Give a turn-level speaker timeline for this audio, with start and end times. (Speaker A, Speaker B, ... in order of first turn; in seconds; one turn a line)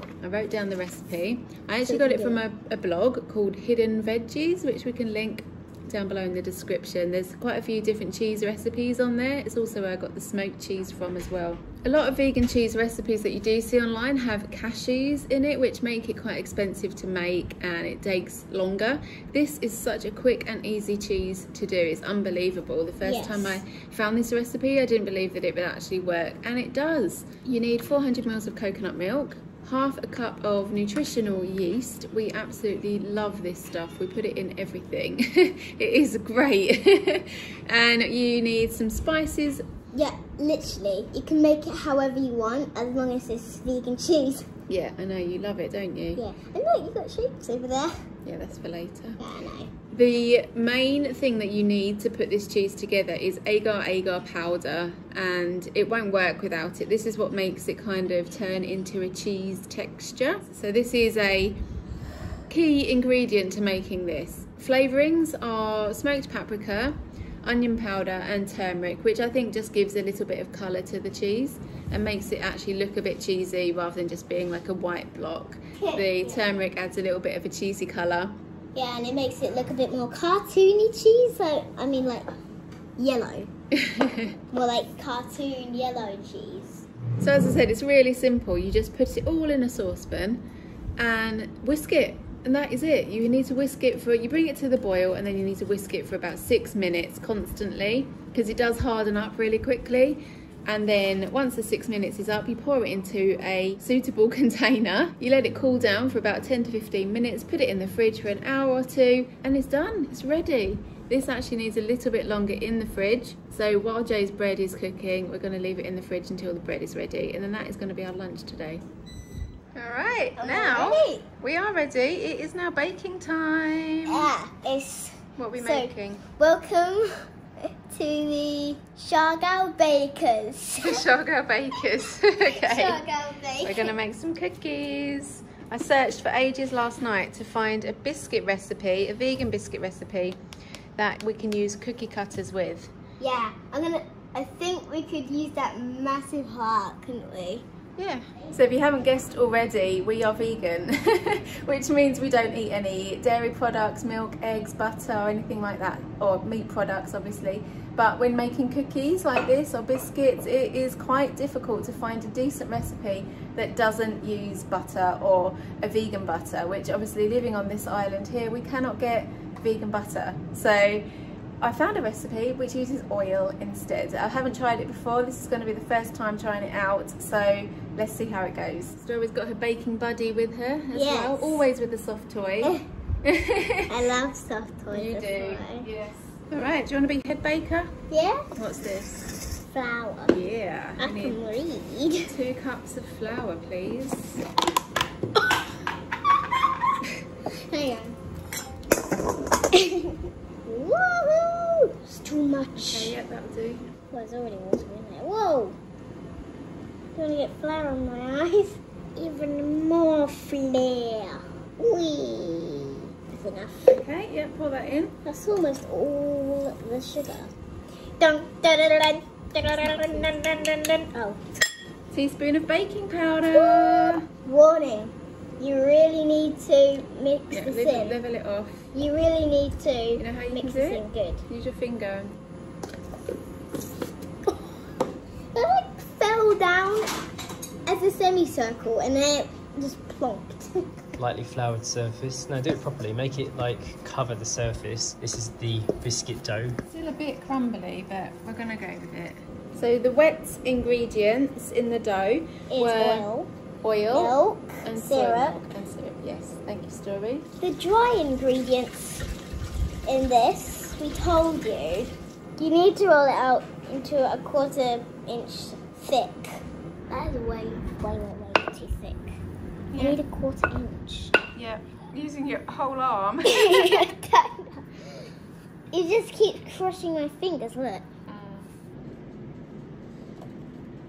Speaker A: 0.2-39.6
Speaker B: 1.9-2.4
Speaker B: 23.0-23.6
Speaker B: 39.9-44.5
Speaker A: 44.7-46.2
Speaker B: 46.1-48.1
Speaker A: 48.2-49.2
Speaker B: 49.2-49.7
Speaker A: 49.9-61.6
Speaker A: 62.5-78.4
Speaker B: 75.8-76.4
Speaker B: 78.7-82.3
Speaker B: 83.0-83.5
Speaker A: 83.8-84.3
Speaker B: 84.5-86.8
Speaker A: 87.2-90.5
Speaker A: 91.0-118.8
Speaker A: 119.8-124.3
Speaker B: 120.3-121.2
Speaker B: 124.1-131.0
Speaker A: 125.4-126.2
Speaker A: 130.8-133.0
Speaker B: 132.5-133.9
Speaker A: 133.6-140.4
Speaker A: 141.0-142.9
Speaker B: 143.2-147.7
Speaker A: 148.0-171.1
Speaker A: 171.6-184.0
Speaker B: 180.9-181.7
Speaker B: 182.6-182.8
Speaker B: 183.9-185.8
Speaker A: 184.9-187.9
Speaker B: 188.1-188.5
Speaker A: 188.5-189.2
Speaker B: 189.7-190.4
Speaker A: 190.3-191.4
Speaker B: 191.0-192.3
Speaker A: 192.3-194.4
Speaker B: 197.5-198.2
Speaker B: 199.7-203.1
Speaker A: 202.8-203.9
Speaker B: 204.1-205.8
Speaker B: 207.1-213.9
Speaker A: 213.9-215.1
Speaker B: 215.2-217.5
Speaker B: 218.2-221.4
Speaker A: 219.9-220.3
Speaker A: 222.1-224.2
Speaker B: 223.5-228.2
Speaker A: 227.5-228.9
Speaker B: 228.9-231.4
Speaker A: 230.2-232.4
Speaker B: 235.5-237.1
Speaker B: 237.8-240.8
Speaker C: 241.2-246.8
Speaker A: 246.9-253.3
Speaker B: 252.7-253.5
Speaker A: 253.8-257.5
Speaker B: 254.1-255.6
Speaker B: 257.6-259.3
Speaker B: 260.1-269.4
Speaker A: 269.9-270.2
Speaker B: 269.9-271.4
Speaker A: 271.5-274.1
Speaker B: 273.4-275.1
Speaker B: 275.9-278.1
Speaker A: 278.3-278.7